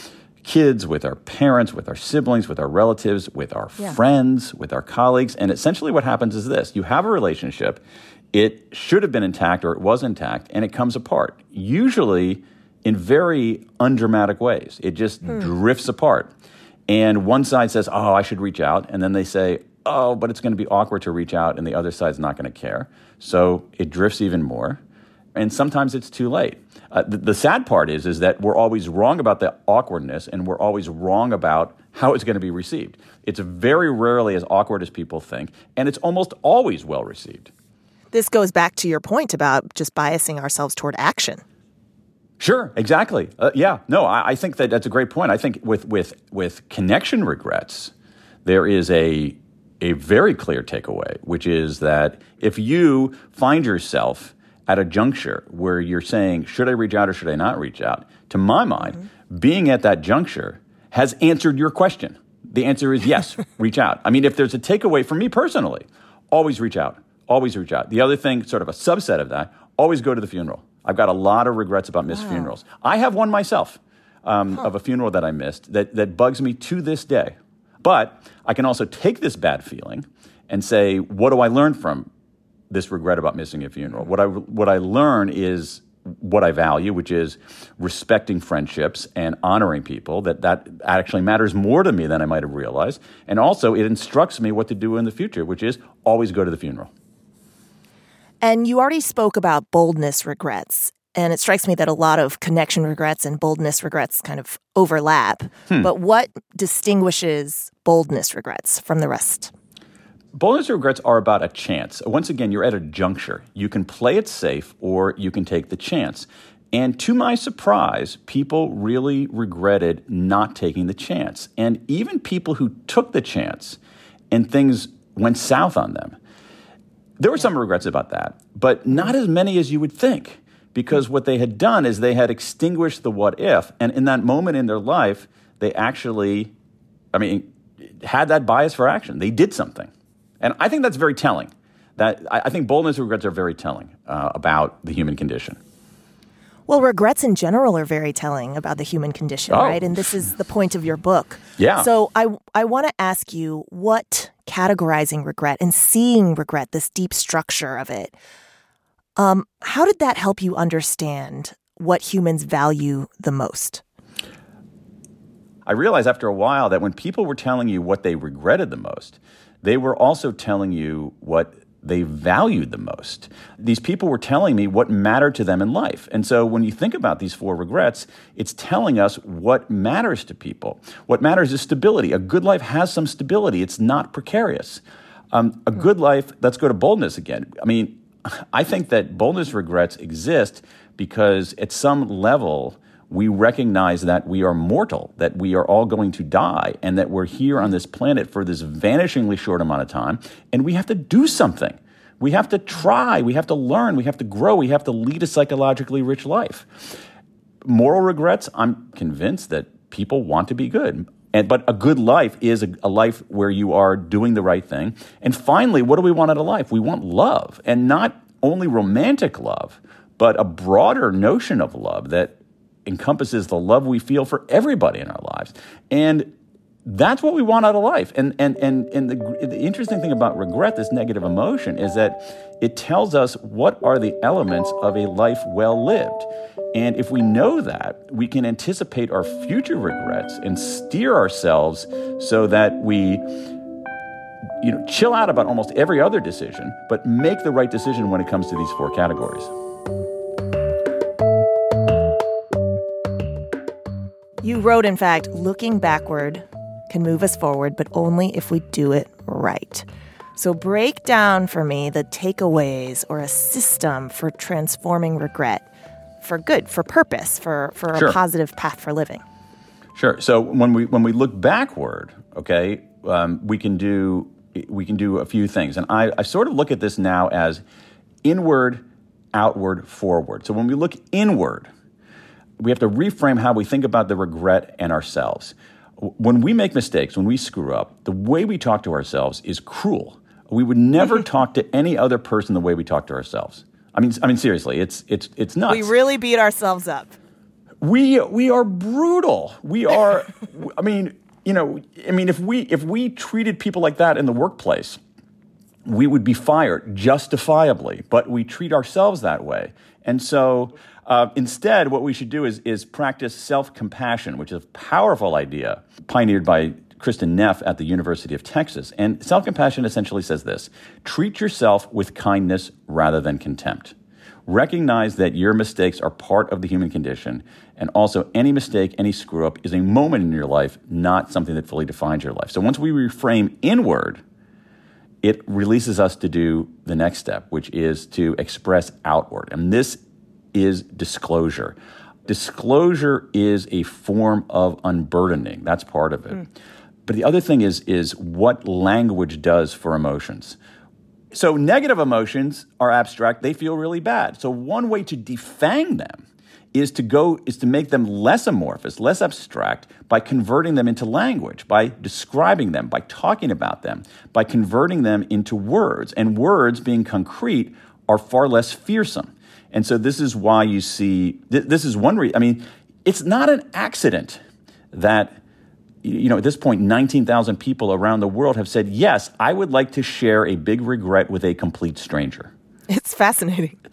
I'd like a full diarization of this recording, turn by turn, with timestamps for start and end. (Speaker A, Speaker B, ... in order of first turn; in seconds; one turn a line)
Speaker A: 0.4-7.8
Speaker A: 8.3-16.3
Speaker A: 16.9-24.8
Speaker A: 25.3-37.5
Speaker B: 38.1-41.4
Speaker A: 42.4-47.9
Speaker A: 48.4-82.1
Speaker A: 82.7-96.9
Speaker B: 98.4-109.5
Speaker A: 110.3-123.8
Speaker A: 124.3-126.2
Speaker A: 127.2-136.5
Speaker A: 137.1-139.9
Speaker A: 140.4-145.6
Speaker B: 146.7-158.2
Speaker A: 149.5-150.1
Speaker A: 151.6-151.9
Speaker B: 159.2-163.8
Speaker A: 165.7-206.8
Speaker A: 207.6-226.3
Speaker A: 226.8-243.4
Speaker A: 244.6-249.5
Speaker B: 254.4-265.7
Speaker B: 266.2-269.2
Speaker A: 267.9-268.2
Speaker A: 269.9-277.6
Speaker A: 278.2-281.7
Speaker A: 282.6-295.9
Speaker B: 295.7-297.2
Speaker A: 297.8-305.0
Speaker A: 305.9-323.9
Speaker A: 324.5-334.2
Speaker A: 335.2-340.0
Speaker A: 340.5-346.5
Speaker A: 347.1-350.6
Speaker A: 351.3-375.4
Speaker A: 376.0-382.5
Speaker B: 382.9-383.8